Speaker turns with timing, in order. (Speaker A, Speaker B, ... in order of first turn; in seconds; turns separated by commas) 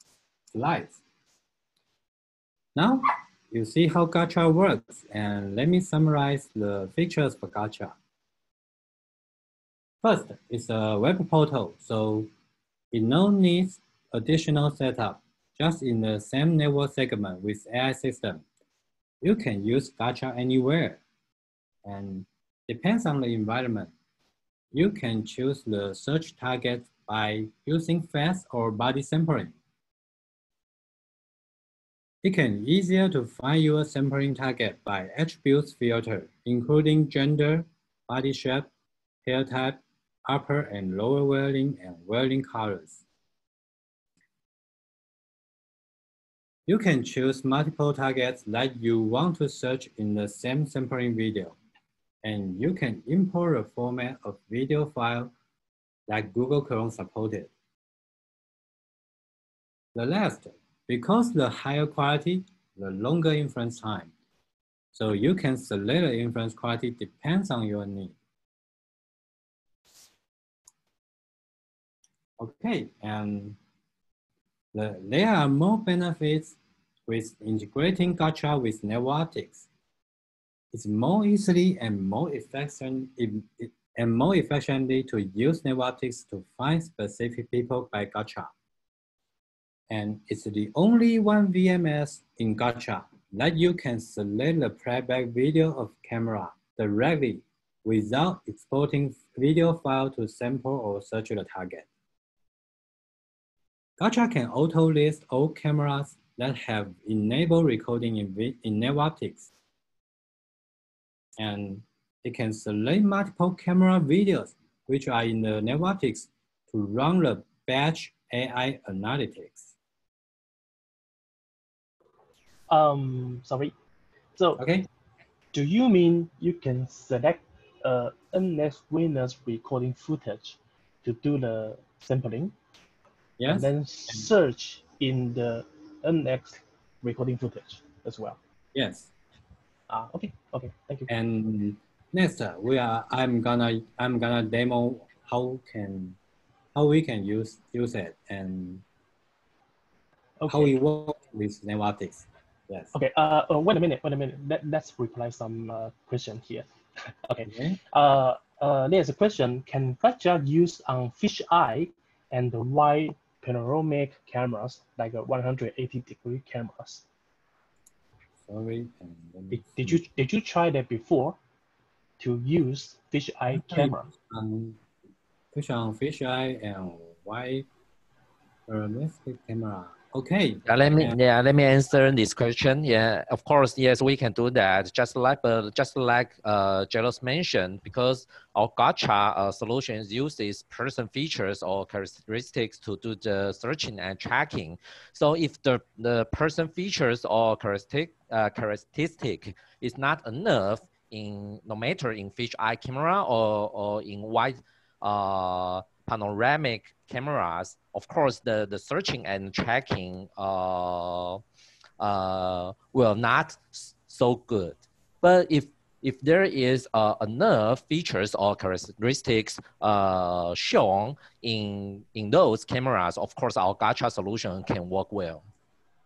Speaker A: 0.5-1.0, Speaker A: 2.7-7.9, Speaker A: 10.0-12.3, Speaker A: 12.9-18.4, Speaker A: 19.2-21.0, Speaker A: 21.8-23.9, Speaker A: 24.7-29.6, Speaker A: 32.2-38.7, Speaker A: 39.2-43.0, Speaker A: 46.6-51.6, Speaker A: 52.2-55.3, Speaker A: 56.1-57.5, Speaker A: 59.9-64.1, Speaker A: 64.9-68.2, Speaker A: 72.4-73.6, Speaker A: 74.7-79.7, Speaker A: 80.7-88.5, Speaker A: 89.9-101.8, Speaker A: 104.0-109.5, Speaker A: 111.4-119.7, Speaker B: 122.7-123.7, Speaker B: 124.3-124.6, Speaker A: 124.6-124.9, Speaker B: 125.5-132.5, Speaker A: 133.4-134.2, Speaker B: 133.5-138.4, Speaker A: 138.7-139.1, Speaker B: 139.9-141.1, Speaker A: 141.1-146.2, Speaker A: 146.7-148.8, Speaker B: 150.4-150.7, Speaker A: 150.5-152.9, Speaker B: 152.9-156.7, Speaker B: 157.2-167.0, Speaker A: 157.4-157.8, Speaker A: 168.4-170.0, Speaker B: 169.5-171.4, Speaker B: 172.2-174.1, Speaker A: 173.5-174.8, Speaker A: 175.5-177.7, Speaker A: 178.7-181.2, Speaker C: 180.7-211.4, Speaker C: 212.0-225.4